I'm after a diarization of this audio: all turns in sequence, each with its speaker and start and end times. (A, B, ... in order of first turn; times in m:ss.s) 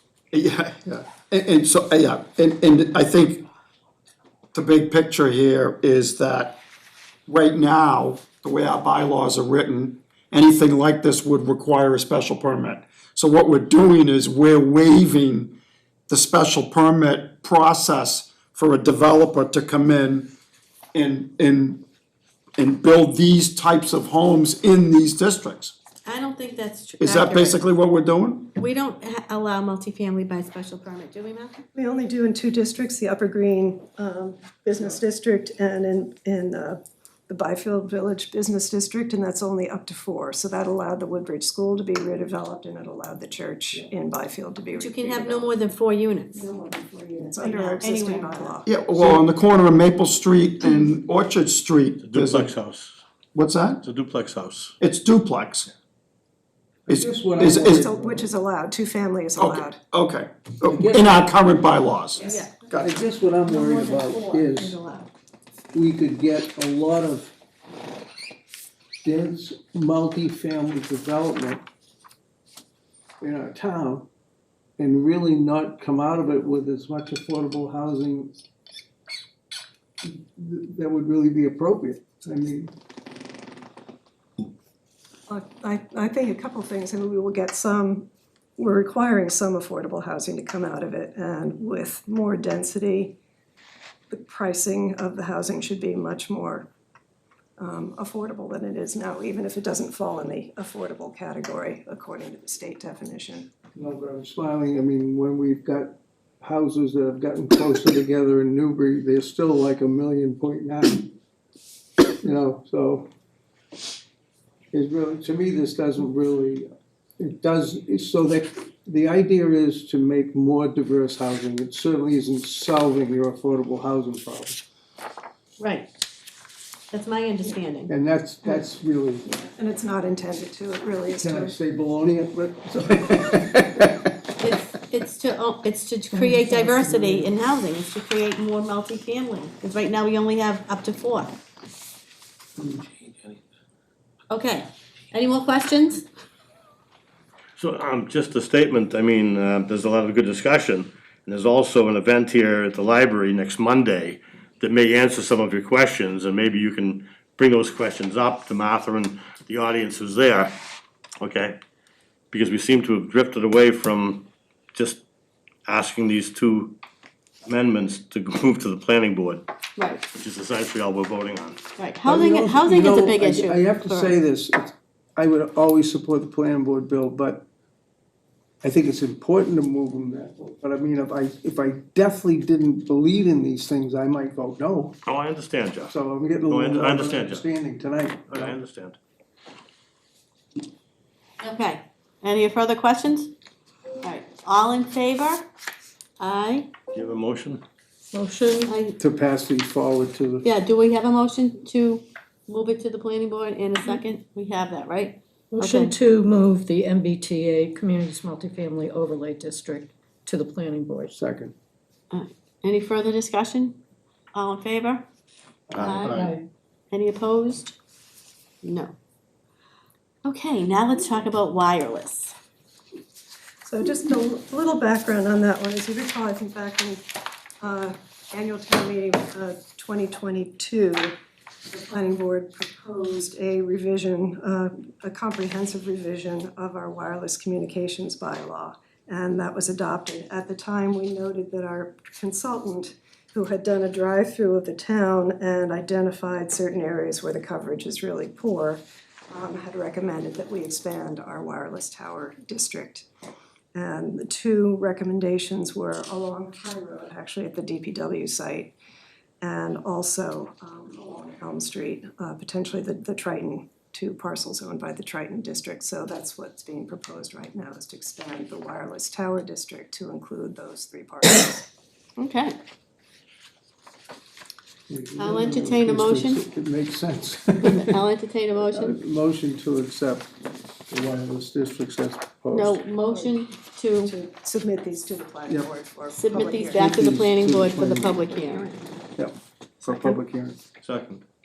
0:00.3-0:03.4 A
0:04.5-0:06.6 A
0:07.3-0:15.6 A
0:16.1-0:20.3 A
0:20.9-0:21.8 A
0:22.6-0:25.7 A
0:26.0-0:27.6 B
0:27.0-0:28.5 A
0:28.5-0:31.6 B
0:31.7-0:45.6 C
0:44.7-0:46.4 B
0:46.3-0:48.7 C
0:47.2-0:48.6 B
0:48.6-0:52.5 A
0:52.0-0:53.0 D
0:53.3-0:53.8 A
0:53.8-0:54.7 D
0:54.8-0:55.7 A
0:56.9-0:57.8 A
0:56.9-0:58.3 E
0:57.4-0:59.8 C
0:59.4-1:02.9 A
1:00.6-1:01.3 E
1:02.2-1:02.5 C
1:02.2-1:02.8 B
1:02.8-1:04.8 E
1:03.4-1:05.1 B
1:05.7-1:07.3 E
1:09.0-1:11.6 E
1:13.2-1:14.1 E
1:14.8-1:18.3 E
1:20.0-1:22.7 E
1:25.3-1:33.2 C
1:34.1-1:36.7 C
1:37.6-1:43.5 C
1:43.7-1:51.1 E
1:52.2-1:53.1 E
1:54.7-2:04.6 E
2:05.6-2:05.9 B
2:06.9-2:07.9 B
2:07.9-2:09.2 E
2:09.2-2:11.6 C
2:11.1-2:14.0 E
2:14.4-2:21.4 B
2:16.2-2:16.8 F
2:16.8-2:17.3 E
2:24.3-2:26.1 B
2:27.6-2:40.5 D
2:41.2-2:41.6 D
2:42.3-2:45.0 D
2:45.6-2:46.8 D
2:47.4-2:49.4 D
2:49.8-2:50.0 B
2:50.1-2:51.6 D
2:51.8-2:54.2 B
2:52.0-2:57.4 E
2:58.6-3:05.0 E
3:05.0-3:07.4 D
3:05.9-3:08.6 E
3:08.3-3:09.0 D
3:11.4-3:13.3 B
3:14.0-3:15.5 B
3:16.2-3:16.7 B
3:16.9-3:17.6 D
3:18.1-3:18.7 F
3:18.6-3:19.0 B
3:19.0-3:20.5 E
3:20.4-3:26.0 B
3:25.5-3:31.1 F
3:31.1-3:31.5 E
3:32.1-3:33.8 B
3:34.3-3:35.0 B
3:35.7-3:36.3 D
3:35.8-3:36.2 B
3:36.1-3:36.4 F
3:36.9-3:37.7 B
3:38.6-3:38.9 B
3:40.2-3:42.3 B
3:43.6-3:47.0 C
3:47.6-3:51.1 C
3:51.7-4:13.1 C
4:13.7-4:18.8 C
4:19.4-4:31.6 C
4:32.2-4:32.6 B
4:34.9-4:38.0 E
4:35.2-4:36.4 B
4:37.6-4:39.0 B
4:38.7-4:40.3 E
4:40.9-4:42.8 E
4:42.5-4:44.1 B
4:43.1-4:43.4 C
4:44.0-4:46.9 C
4:46.1-4:48.8 B
4:46.8-4:48.3 E
4:49.2-4:50.6 E
4:49.9-4:50.2 B
4:50.8-4:51.2 D